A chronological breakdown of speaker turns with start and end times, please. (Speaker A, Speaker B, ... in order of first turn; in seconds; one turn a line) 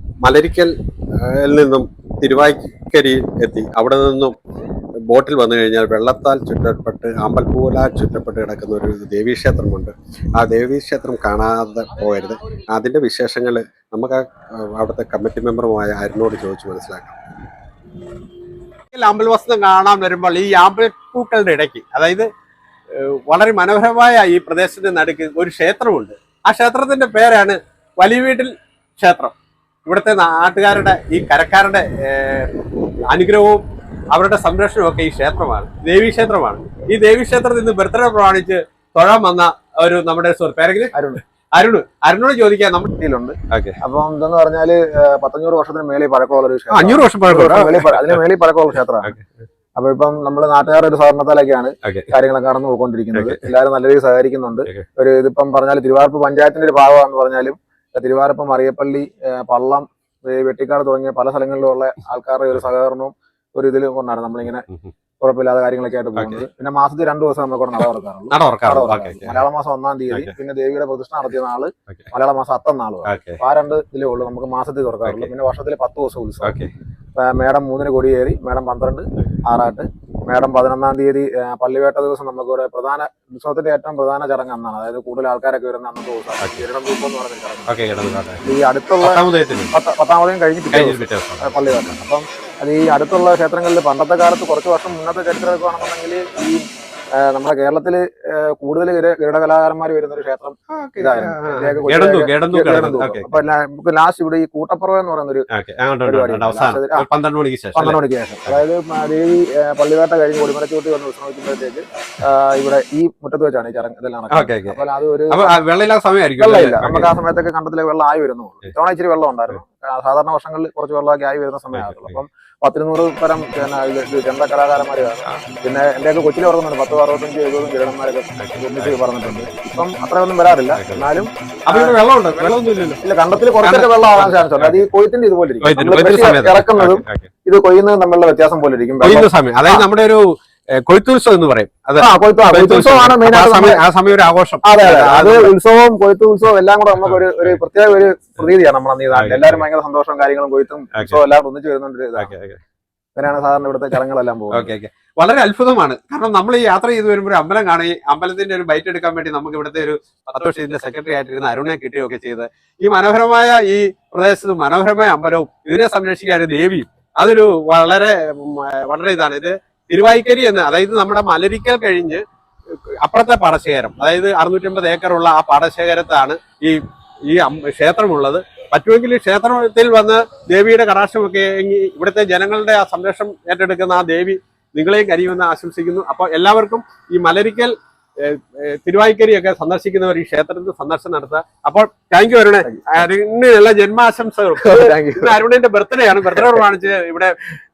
Speaker A: 0.2-4.4
Speaker A: 5.1-17.2
Speaker A: 18.9-22.3
Speaker A: 22.9-29.3
Speaker A: 29.9-40.9
Speaker B: 40.9-41.2
Speaker A: 41.5-43.0
Speaker B: 43.0-49.1
Speaker A: 43.5-43.8
Speaker A: 46.7-48.2
Speaker B: 49.8-64.7
Speaker A: 51.8-52.1
Speaker A: 53.1-53.5
Speaker B: 65.2-76.6
Speaker A: 66.2-66.4
Speaker A: 68.3-69.5
Speaker A: 73.0-73.4
Speaker A: 75.0-75.3
Speaker A: 76.4-76.7
Speaker B: 77.2-87.7
Speaker A: 87.7-88.4
Speaker B: 88.4-89.2
Speaker A: 89.0-89.7
Speaker B: 89.7-96.6
Speaker A: 90.7-92.0
Speaker B: 97.2-105.5
Speaker A: 100.7-103.3
Speaker A: 105.5-108.6
Speaker B: 106.0-107.1
Speaker B: 107.8-115.6
Speaker A: 114.3-117.1
Speaker B: 116.4-132.0
Speaker A: 121.7-122.2
Speaker A: 128.4-129.5
Speaker A: 130.8-131.1
Speaker A: 131.7-133.0
Speaker B: 133.0-139.9
Speaker A: 133.6-134.9
Speaker A: 135.6-137.3
Speaker A: 139.0-140.2
Speaker A: 140.8-145.5
Speaker B: 142.0-143.8
Speaker B: 144.6-152.3
Speaker A: 147.0-147.6
Speaker A: 149.1-149.7
Speaker A: 150.9-151.2
Speaker A: 152.2-152.6
Speaker B: 153.2-154.7
Speaker A: 154.5-172.2
Speaker A: 173.0-197.3
Speaker B: 192.6-193.1
Speaker B: 194.6-195.4
Speaker B: 196.1-196.7